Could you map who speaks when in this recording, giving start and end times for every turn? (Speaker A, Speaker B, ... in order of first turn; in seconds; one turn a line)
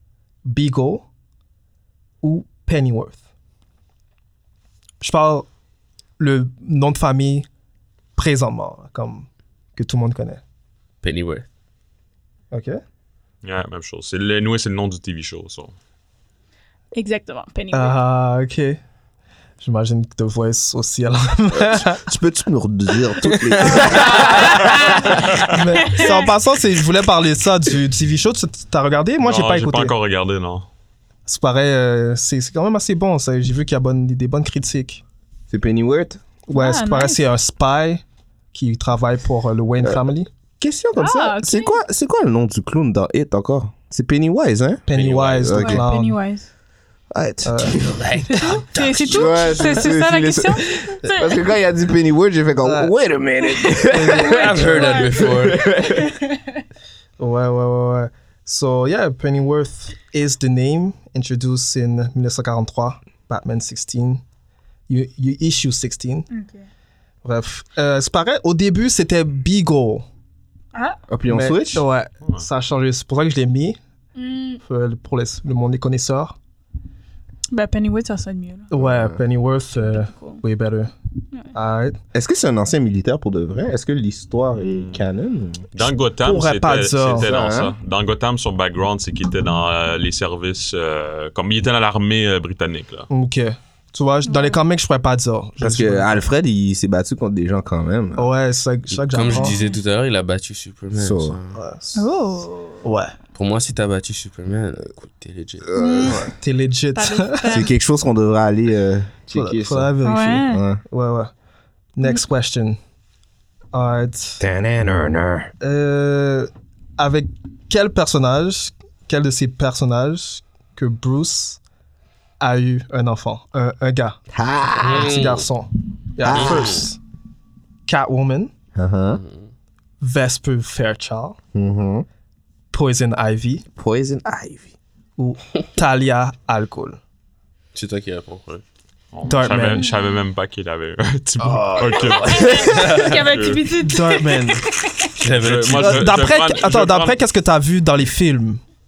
Speaker A: 0.4-1.0
Speaker A: 2.2-3.2
Speaker A: 5.0-5.5
Speaker A: 6.2-7.5
Speaker A: 8.2-10.4
Speaker B: 11.0-11.4
Speaker A: 12.5-12.8
Speaker C: 13.4-15.7
Speaker D: 16.9-18.0
Speaker A: 17.7-18.8
Speaker A: 19.6-22.0
Speaker E: 21.6-25.4
Speaker A: 23.3-24.1
Speaker D: 23.6-26.3
Speaker A: 25.2-29.9
Speaker C: 29.2-30.7
Speaker A: 31.3-35.0
Speaker E: 35.5-36.2
Speaker A: 36.5-38.0
Speaker D: 36.5-37.2
Speaker A: 38.5-40.3
Speaker E: 40.6-45.8
Speaker D: 41.0-41.8
Speaker A: 44.9-46.2
Speaker B: 44.9-45.6
Speaker D: 45.5-46.5
Speaker E: 47.1-56.1
Speaker A: 47.4-47.8
Speaker D: 48.3-51.4
Speaker A: 52.6-52.9
Speaker D: 53.5-56.6
Speaker A: 53.9-55.0
Speaker B: 54.3-55.6
Speaker A: 57.2-64.2
Speaker A: 64.9-66.3
Speaker D: 66.3-66.7
Speaker A: 67.2-70.0
Speaker D: 70.7-71.0
Speaker E: 71.1-71.8
Speaker A: 71.3-73.8
Speaker D: 74.2-74.6
Speaker A: 74.6-76.3
Speaker D: 77.5-78.7
Speaker A: 78.7-80.9
Speaker E: 78.7-79.2
Speaker D: 79.7-80.4
Speaker A: 81.5-82.0
Speaker E: 82.1-85.7
Speaker C: 84.7-85.0
Speaker C: 85.7-93.1
Speaker A: 86.2-87.3
Speaker E: 87.2-87.7
Speaker A: 93.1-96.1
Speaker D: 94.2-94.6
Speaker E: 95.6-98.3
Speaker A: 98.2-99.6
Speaker B: 98.9-101.6
Speaker D: 99.2-99.8
Speaker E: 100.9-101.4
Speaker A: 101.5-102.0
Speaker D: 101.9-102.8
Speaker A: 102.8-103.1
Speaker B: 103.3-105.7
Speaker E: 105.7-106.3
Speaker D: 105.8-106.2
Speaker A: 106.0-107.6
Speaker D: 106.9-107.7
Speaker E: 107.5-109.9
Speaker A: 109.3-111.3
Speaker D: 110.0-110.6
Speaker E: 110.5-110.8
Speaker A: 112.0-112.8
Speaker A: 113.7-114.4
Speaker E: 114.4-115.5
Speaker A: 115.6-121.6
Speaker A: 122.4-124.2
Speaker E: 124.3-125.2
Speaker B: 124.8-125.5
Speaker A: 124.9-127.0
Speaker E: 126.2-126.8
Speaker B: 126.3-126.8
Speaker A: 127.8-128.5
Speaker E: 128.7-129.2
Speaker B: 129.2-129.5
Speaker A: 130.0-131.4
Speaker E: 131.5-132.1
Speaker A: 132.7-133.6
Speaker E: 133.8-134.7
Speaker A: 135.2-137.0
Speaker B: 137.7-138.6
Speaker C: 139.1-143.6
Speaker A: 139.3-139.8
Speaker D: 139.8-140.2
Speaker E: 141.4-142.8
Speaker D: 142.1-145.1
Speaker B: 142.7-143.2
Speaker A: 143.8-144.7
Speaker B: 145.2-146.1
Speaker C: 145.2-147.2
Speaker A: 145.7-148.6